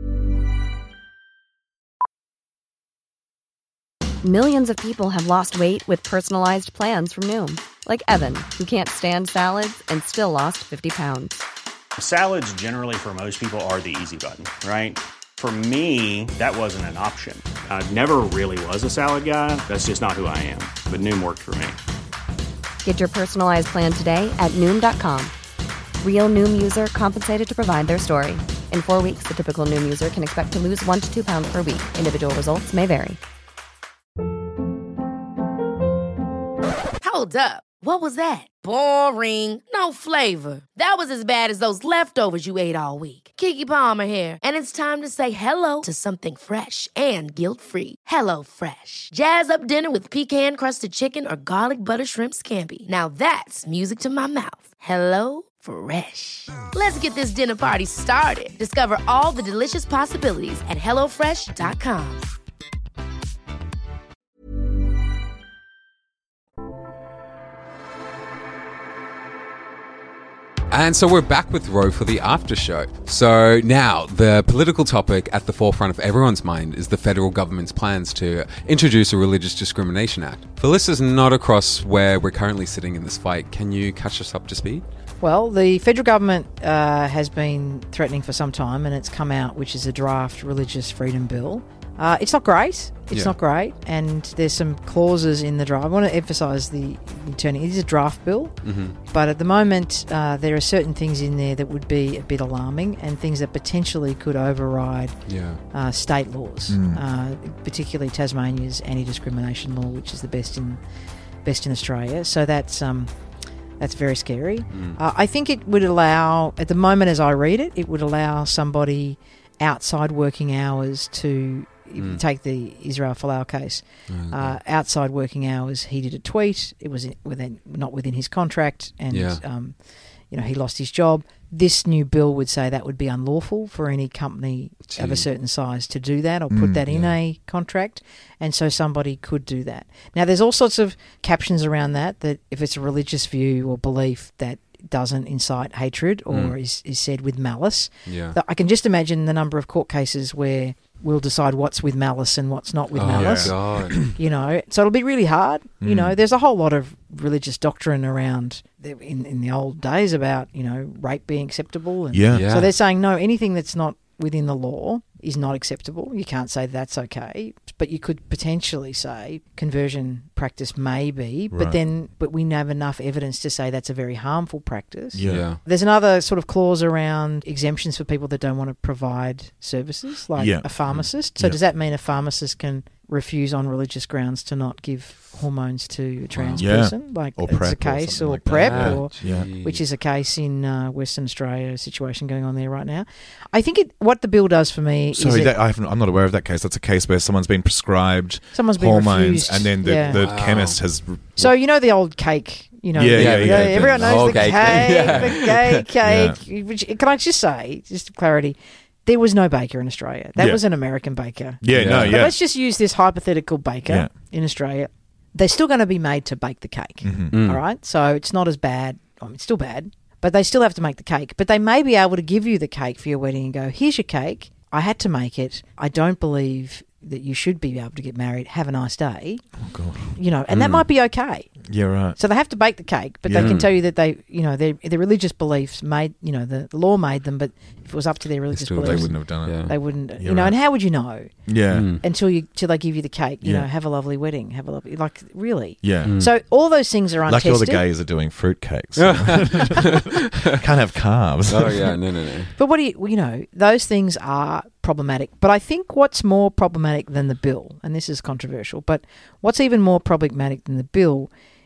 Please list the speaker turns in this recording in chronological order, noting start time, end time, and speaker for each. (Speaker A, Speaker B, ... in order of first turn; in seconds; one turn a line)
Speaker A: 4.2-11.4
Speaker B: 12.0-21.8
Speaker A: 22.8-25.3
Speaker A: 26.0-33.2
Speaker C: 37.0-62.3
Speaker D: 70.7-84.8
Speaker E: 85.2-110.8
Speaker D: 93.1-93.4
Speaker D: 98.6-99.0
Speaker D: 105.2-105.6
Speaker F: 106.7-107.0
Speaker E: 111.4-195.6
Speaker D: 114.7-115.0
Speaker D: 122.0-122.2
Speaker D: 124.1-124.6
Speaker D: 129.1-129.4
Speaker D: 134.9-135.3
Speaker F: 136.5-136.8
Speaker D: 136.9-137.2
Speaker D: 146.3-146.5
Speaker D: 148.1-148.4
Speaker D: 152.9-154.0
Speaker F: 153.1-154.1
Speaker F: 155.8-156.2
Speaker F: 162.1-162.5
Speaker D: 162.3-162.7
Speaker F: 171.5-171.8
Speaker F: 175.1-175.6
Speaker D: 175.2-175.6
Speaker F: 180.3-181.6
Speaker D: 186.3-186.8
Speaker F: 186.6-189.5
Speaker D: 188.6-189.8
Speaker F: 195.1-201.5
Speaker E: 198.5-200.3
Speaker D: 200.0-201.0
Speaker E: 201.4-247.9
Speaker F: 202.9-206.4
Speaker D: 203.1-205.5
Speaker F: 210.3-210.7
Speaker F: 211.6-212.4
Speaker D: 211.7-212.3
Speaker F: 213.8-214.1
Speaker F: 217.0-217.4
Speaker D: 217.3-217.6
Speaker F: 229.6-232.2
Speaker F: 233.2-233.6
Speaker D: 233.4-233.8
Speaker D: 238.5-239.8
Speaker F: 238.8-240.7
Speaker F: 241.4-242.0
Speaker D: 241.7-242.0
Speaker F: 243.4-243.7
Speaker F: 245.8-246.7
Speaker D: 246.0-246.3
Speaker F: 247.2-249.9
Speaker D: 249.0-249.8
Speaker F: 250.6-252.0
Speaker D: 251.5-252.5
Speaker E: 252.6-261.3